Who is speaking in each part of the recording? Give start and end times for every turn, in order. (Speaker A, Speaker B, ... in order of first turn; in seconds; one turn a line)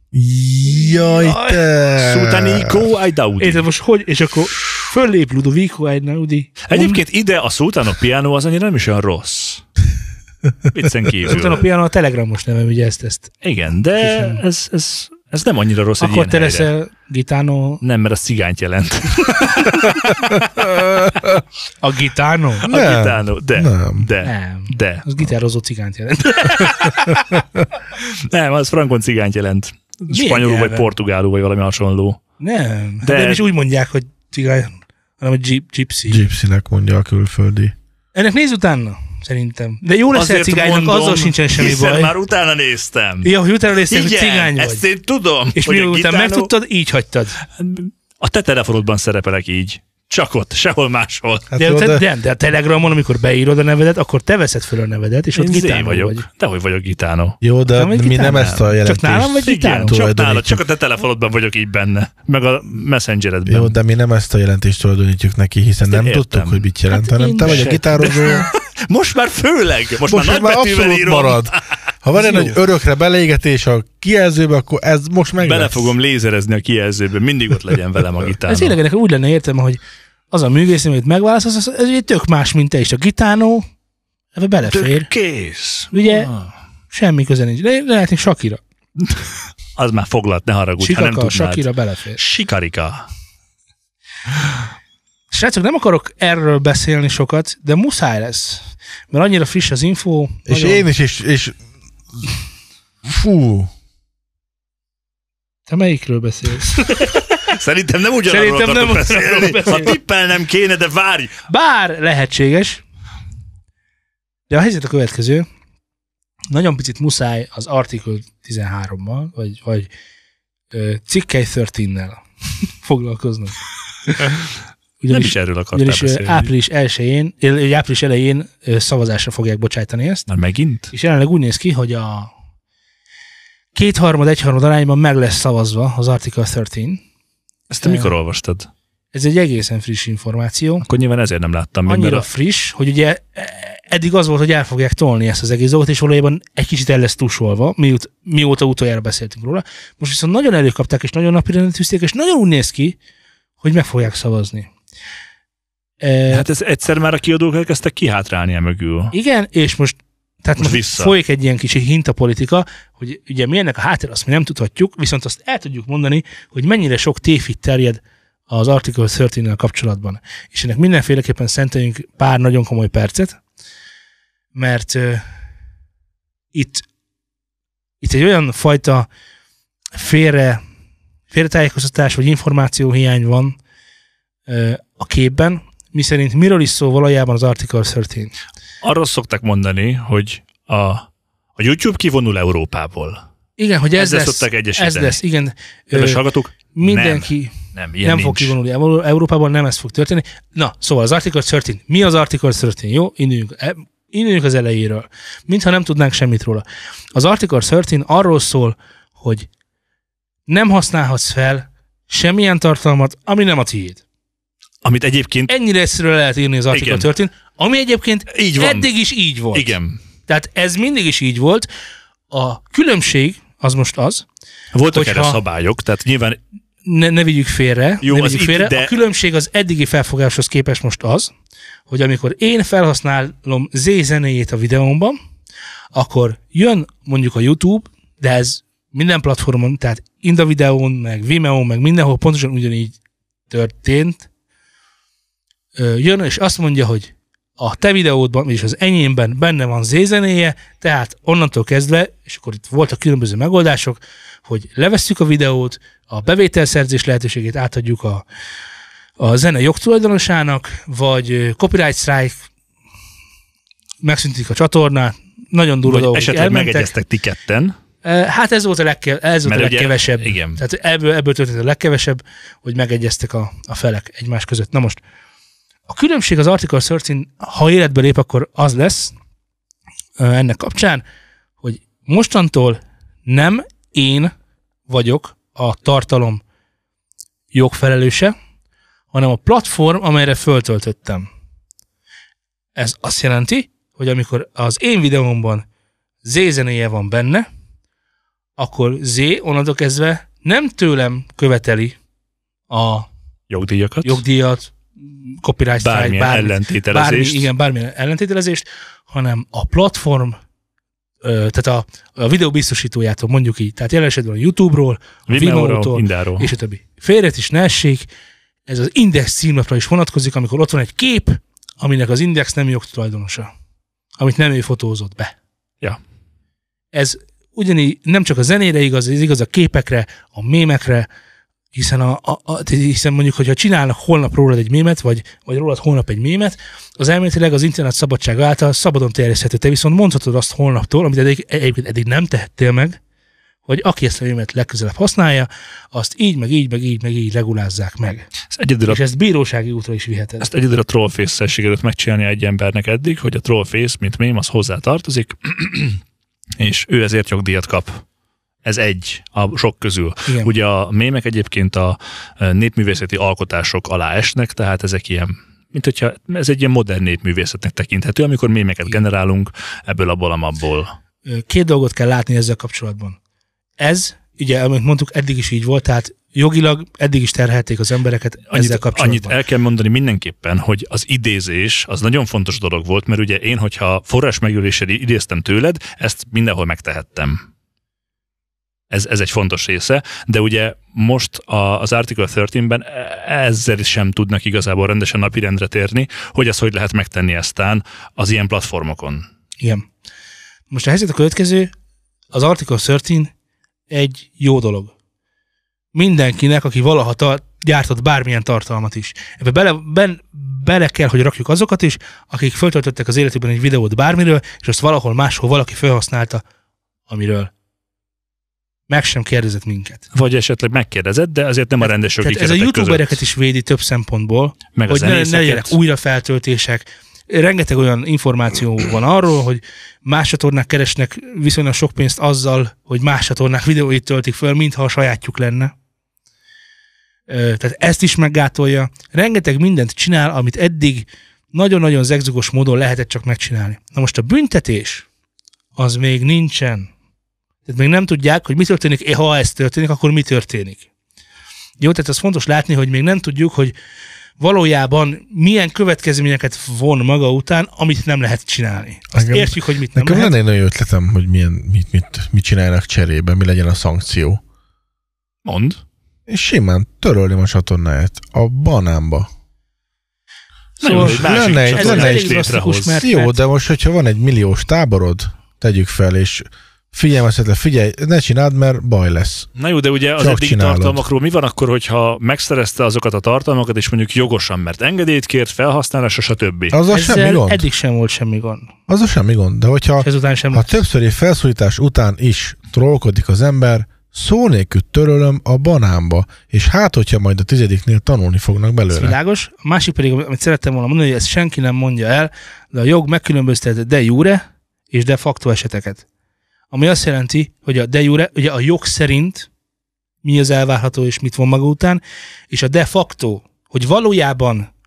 Speaker A: 0.1-2.9
Speaker B: 0.7-1.6
Speaker C: 2.0-3.6
Speaker B: 3.4-7.0
Speaker C: 6.7-9.6
Speaker C: 10.7-11.6
Speaker B: 11.3-13.3
Speaker C: 13.4-16.7
Speaker B: 14.0-14.4
Speaker B: 16.0-17.8
Speaker C: 17.8-20.1
Speaker A: 20.3-21.4
Speaker B: 21.8-22.7
Speaker C: 22.6-25.1
Speaker A: 22.7-24.1
Speaker B: 24.2-27.4
Speaker C: 28.0-32.2
Speaker B: 30.1-30.9
Speaker B: 32.4-36.2
Speaker C: 33.0-33.5
Speaker A: 36.1-37.7
Speaker B: 38.1-42.1
Speaker C: 40.1-43.3
Speaker B: 43.2-44.9
Speaker C: 43.9-46.5
Speaker B: 45.5-47.4
Speaker C: 47.6-51.5
Speaker A: 51.5-52.0
Speaker B: 51.6-56.3
Speaker C: 55.4-57.4
Speaker A: 57.4-60.6
Speaker B: 57.7-60.0
Speaker C: 58.3-58.6
Speaker C: 59.4-63.8
Speaker A: 63.5-68.5
Speaker C: 65.9-66.7
Speaker B: 66.9-68.4
Speaker C: 67.4-71.6
Speaker A: 70.1-75.9
Speaker B: 72.2-72.5
Speaker C: 75.4-78.8
Speaker B: 78.5-79.8
Speaker B: 80.3-83.7
Speaker B: 84.3-85.1
Speaker C: 84.6-86.5
Speaker B: 85.9-86.3
Speaker B: 86.9-88.6
Speaker C: 89.8-93.1
Speaker B: 90.8-92.2
Speaker B: 95.3-100.9
Speaker A: 100.5-101.6
Speaker A: 103.0-103.7
Speaker B: 105.7-107.2
Speaker C: 107.0-111.3
Speaker B: 108.3-110.0
Speaker B: 111.5-112.8
Speaker B: 114.5-115.5
Speaker B: 116.5-119.9
Speaker B: 120.7-122.2
Speaker B: 122.8-124.4
Speaker B: 125.0-130.3
Speaker C: 125.1-126.5
Speaker C: 130.3-130.9
Speaker B: 130.9-132.3
Speaker B: 133.8-137.0
Speaker C: 137.7-138.7
Speaker B: 137.8-138.1
Speaker B: 139.1-140.8
Speaker C: 140.8-142.3
Speaker B: 141.9-153.0
Speaker B: 153.6-154.7
Speaker B: 156.0-156.5
Speaker C: 156.3-159.1
Speaker B: 159.1-173.4
Speaker C: 160.6-161.1
Speaker B: 174.5-175.2
Speaker B: 176.5-176.8
Speaker B: 178.0-179.1
Speaker B: 179.9-180.6
Speaker B: 181.3-183.6
Speaker B: 184.5-188.3
Speaker C: 188.8-191.1
Speaker C: 191.6-193.2
Speaker B: 193.6-209.5
Speaker C: 194.0-195.2
Speaker C: 195.9-198.6
Speaker B: 210.5-214.0
Speaker C: 214.8-215.5
Speaker B: 215.5-219.8
Speaker C: 216.7-217.1
Speaker C: 218.3-218.9
Speaker C: 219.5-220.0
Speaker B: 220.3-221.7
Speaker B: 222.3-224.2
Speaker C: 224.7-226.4
Speaker B: 224.9-225.4
Speaker B: 226.8-231.3
Speaker C: 228.0-229.0
Speaker B: 231.9-235.2
Speaker B: 235.9-242.9
Speaker B: 243.5-244.3
Speaker B: 245.8-258.3
Speaker B: 259.2-262.4
Speaker B: 264.0-266.9
Speaker C: 265.9-267.7
Speaker B: 268.0-275.0
Speaker C: 269.5-270.6
Speaker B: 275.9-279.1
Speaker B: 280.2-281.0
Speaker B: 281.6-284.3
Speaker B: 284.9-286.4
Speaker B: 287.5-288.3
Speaker B: 289.1-291.3
Speaker B: 292.8-295.6
Speaker B: 296.2-297.5
Speaker B: 298.6-302.0
Speaker B: 302.7-303.1
Speaker C: 303.5-304.2
Speaker B: 304.0-310.4
Speaker C: 305.8-307.5
Speaker B: 311.2-318.1
Speaker C: 315.3-316.5
Speaker B: 318.7-323.5
Speaker B: 324.2-325.4
Speaker B: 326.9-331.1
Speaker B: 331.7-343.0
Speaker B: 343.7-348.3
Speaker C: 348.5-349.0
Speaker B: 348.9-350.5
Speaker C: 350.4-356.0
Speaker C: 356.6-358.0
Speaker C: 358.6-370.9
Speaker B: 360.3-360.5
Speaker B: 371.3-373.2
Speaker B: 373.8-379.4
Speaker C: 378.5-387.4
Speaker C: 388.9-399.3
Speaker B: 399.6-399.9
Speaker B: 400.7-401.7
Speaker B: 402.3-403.3
Speaker B: 403.9-404.9
Speaker B: 405.9-416.4
Speaker B: 417.1-417.5
Speaker B: 418.9-420.1
Speaker C: 420.1-423.2
Speaker B: 421.8-435.7
Speaker C: 424.8-425.8
Speaker B: 437.3-445.1
Speaker B: 445.8-446.9
Speaker B: 447.7-450.9
Speaker B: 451.8-453.7
Speaker B: 454.4-460.4
Speaker A: 459.1-464.4
Speaker C: 465.4-465.8
Speaker A: 466.3-469.3
Speaker C: 470.8-473.0
Speaker B: 470.8-473.4
Speaker A: 470.9-479.5
Speaker C: 479.6-486.8
Speaker A: 480.2-481.0
Speaker A: 486.7-487.6
Speaker B: 486.9-488.7
Speaker A: 488.9-499.2
Speaker B: 490.0-490.8
Speaker B: 498.9-506.1
Speaker B: 506.7-509.5
Speaker B: 510.2-514.7